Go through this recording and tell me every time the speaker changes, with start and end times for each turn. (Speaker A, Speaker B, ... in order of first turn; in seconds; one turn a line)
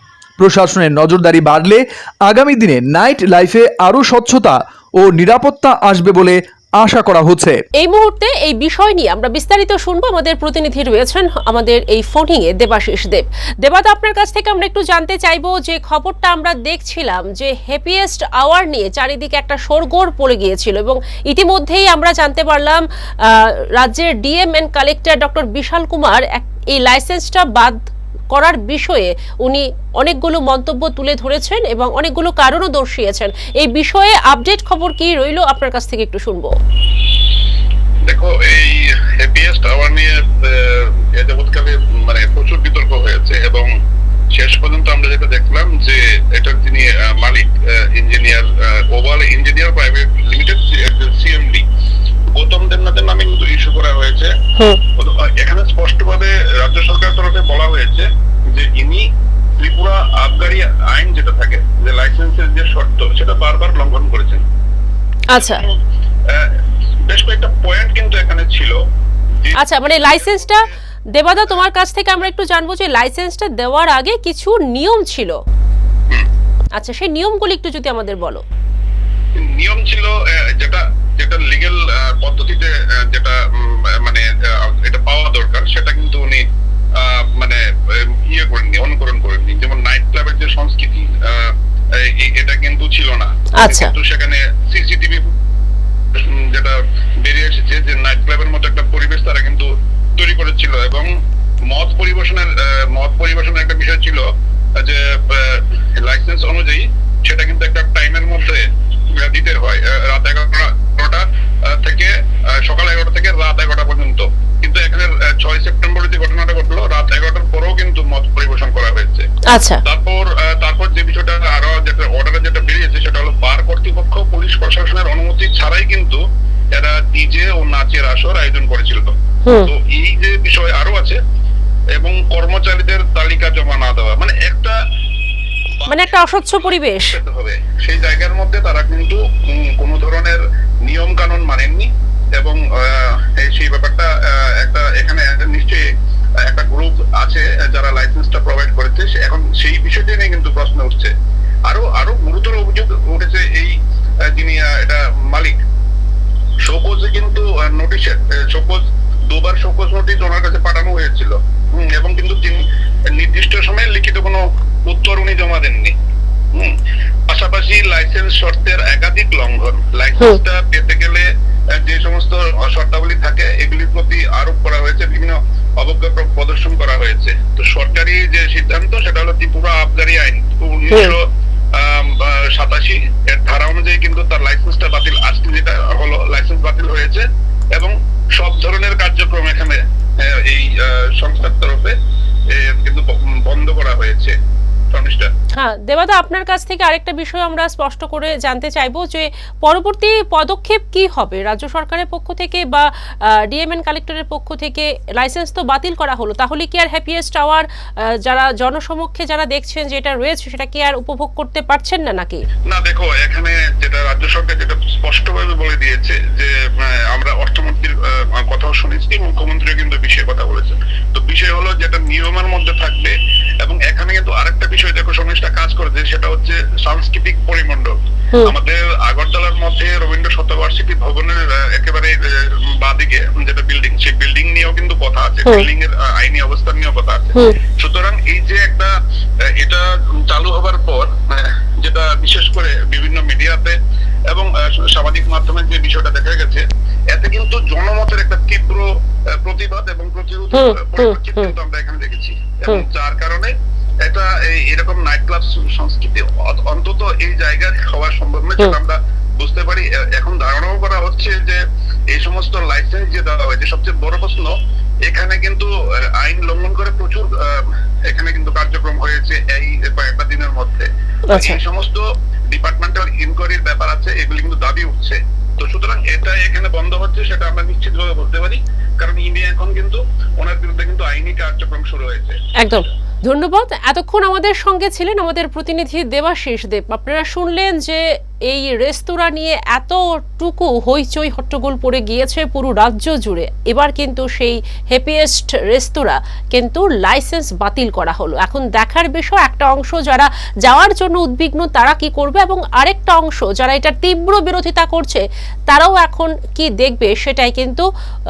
Speaker A: 0.4-7.6
Speaker B: 7.8-27.8
Speaker B: 28.3-36.5
Speaker C: 38.1-43.7
Speaker C: 44.3-51.6
Speaker C: 52.3-54.3
Speaker C: 55.0-59.1
Speaker C: 59.6-64.4
Speaker B: 65.3-65.6
Speaker C: 65.4-65.7
Speaker C: 67.1-68.8
Speaker C: 69.4-70.7
Speaker B: 69.6-70.6
Speaker B: 71.2-75.4
Speaker B: 76.8-78.4
Speaker C: 79.4-86.4
Speaker C: 87.0-95.3
Speaker B: 93.6-93.9
Speaker C: 96.1-101.1
Speaker C: 101.7-104.2
Speaker C: 104.8-108.6
Speaker C: 109.2-111.2
Speaker C: 111.8-112.1
Speaker C: 112.6-119.2
Speaker B: 119.5-119.8
Speaker C: 119.8-126.2
Speaker C: 126.7-131.2
Speaker C: 132.0-134.8
Speaker C: 135.8-136.1
Speaker B: 135.9-137.2
Speaker C: 137.1-145.8
Speaker C: 146.5-151.1
Speaker C: 151.7-153.7
Speaker C: 154.3-155.6
Speaker C: 156.6-165.9
Speaker C: 167.3-171.2
Speaker C: 171.8-181.2
Speaker C: 181.8-187.2
Speaker C: 187.8-191.9
Speaker C: 192.5-194.3
Speaker C: 194.9-195.3
Speaker B: 195.6-207.7
Speaker B: 208.2-212.4
Speaker C: 212.7-232.1
Speaker C: 232.8-238.9
Speaker C: 239.6-243.8
Speaker C: 244.3-248.8
Speaker C: 249.4-253.5
Speaker B: 250.5-251.5
Speaker C: 254.1-261.6
Speaker C: 262.1-264.5
Speaker C: 265.1-282.4
Speaker B: 271.3-271.6
Speaker B: 282.6-307.8